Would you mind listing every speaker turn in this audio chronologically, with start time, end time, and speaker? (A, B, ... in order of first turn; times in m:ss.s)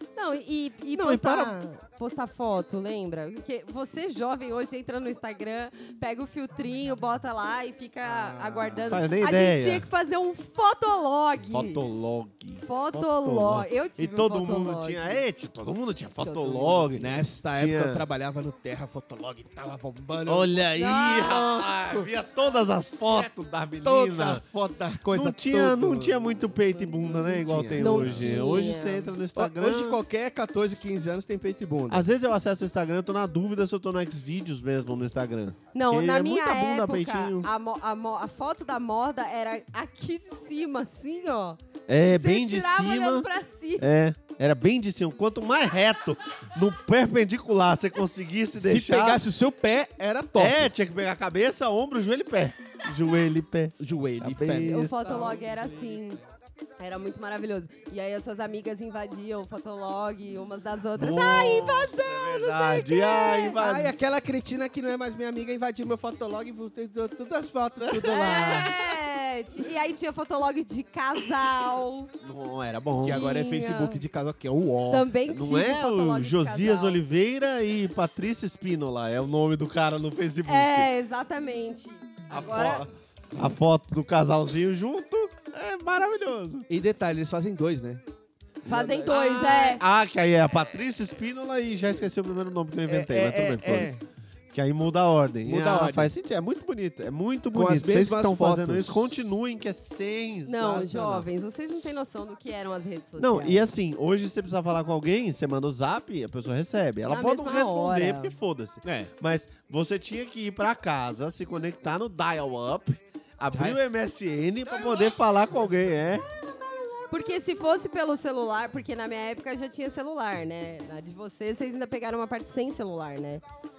0:00.2-0:11.8 A
0:00.9-0:01.5 B
0:08.0-0:09.0 C
0:08.9-0:09.9 B
0:11.5-0:18.0 B
0:12.6-0:15.2 A
0:16.2-0:17.0 A
0:17.0-0:20.6 C
0:20.2-0:24.4 B
0:20.7-0:21.7 A
0:23.8-0:28.6 C
0:25.1-0:30.0 B
0:27.8-0:29.1 A
0:29.3-0:32.1 C
0:31.9-0:37.5 B
0:35.7-0:43.9 A
0:41.9-0:43.3 B
0:43.8-0:49.2 B
0:48.5-0:50.7 C
0:50.4-0:55.1 B
0:53.8-0:55.8 C
0:54.6-0:56.2 A
0:56.8-1:03.6 A
1:01.0-1:03.9 B
1:03.6-1:08.7 C
1:07.8-1:08.7 B
1:08.0-1:12.1 A
1:12.2-1:13.2 B
1:13.0-1:14.0 A
1:13.0-1:15.1 C
1:14.9-1:17.0 A
1:15.3-1:20.9 B
1:20.4-1:22.8 A
1:22.3-1:26.6 B
1:26.7-1:28.0 C
1:28.6-1:29.1 C
1:28.6-1:29.8 A
1:29.1-1:34.0 B
1:32.9-1:34.0 C
1:34.5-1:41.3 B
1:35.4-1:36.1 C
1:37.5-1:39.1 C
1:40.4-1:43.7 A
1:43.2-1:56.2 B
1:47.1-1:48.4 A
1:48.8-1:49.1 C
1:53.5-1:53.8 C
1:57.1-2:03.4 A